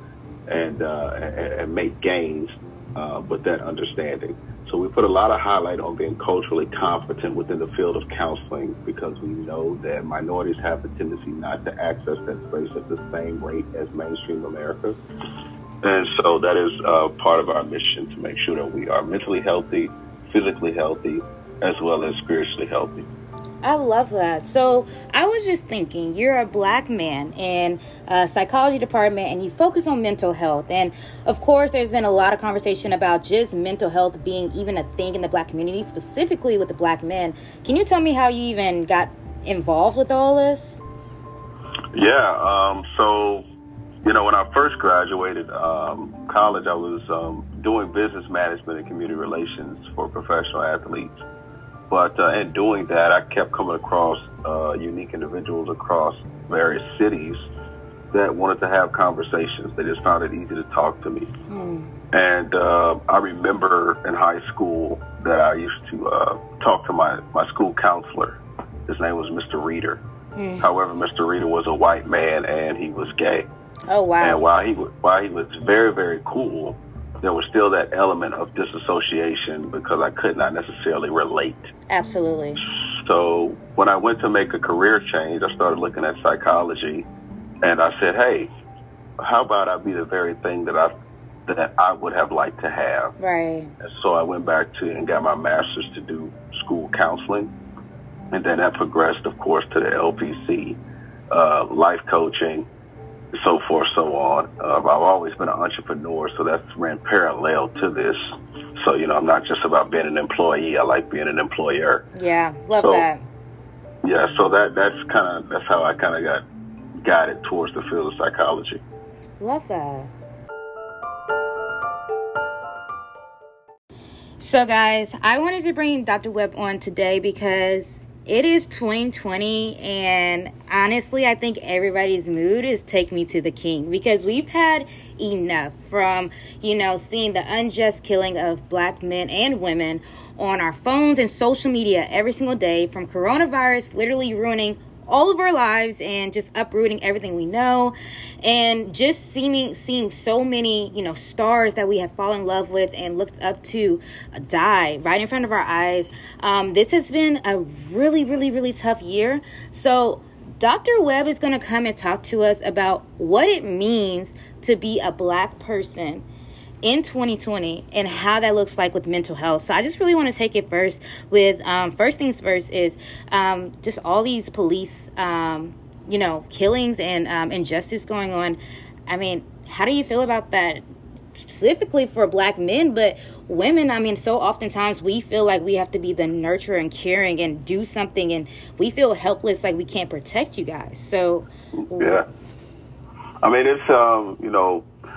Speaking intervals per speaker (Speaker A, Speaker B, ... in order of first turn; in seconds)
Speaker A: 0.5-14.9, 15.8-23.1, 41.9-43.4, 44.0-51.1, 51.9-57.4, 58.1-61.3, 62.1-70.0, 70.6-73.5, 74.2-81.7, 82.7-87.0, 87.6-88.5, 89.2-90.9, 91.5-93.1, 93.8-97.5, 98.3-100.8, 101.3-102.7, 103.4-108.2, 108.8-112.0, 114.0-116.4, 117.0-118.8, 191.9-192.2, 193.4-194.9
Speaker B: 23.6-40.8, 61.5-61.9, 70.4-70.7, 73.9-74.4, 81.9-82.6, 93.2-93.7, 112.1-113.2, 119.4-120.1, 124.4-166.2, 166.8-180.8, 181.4-192.2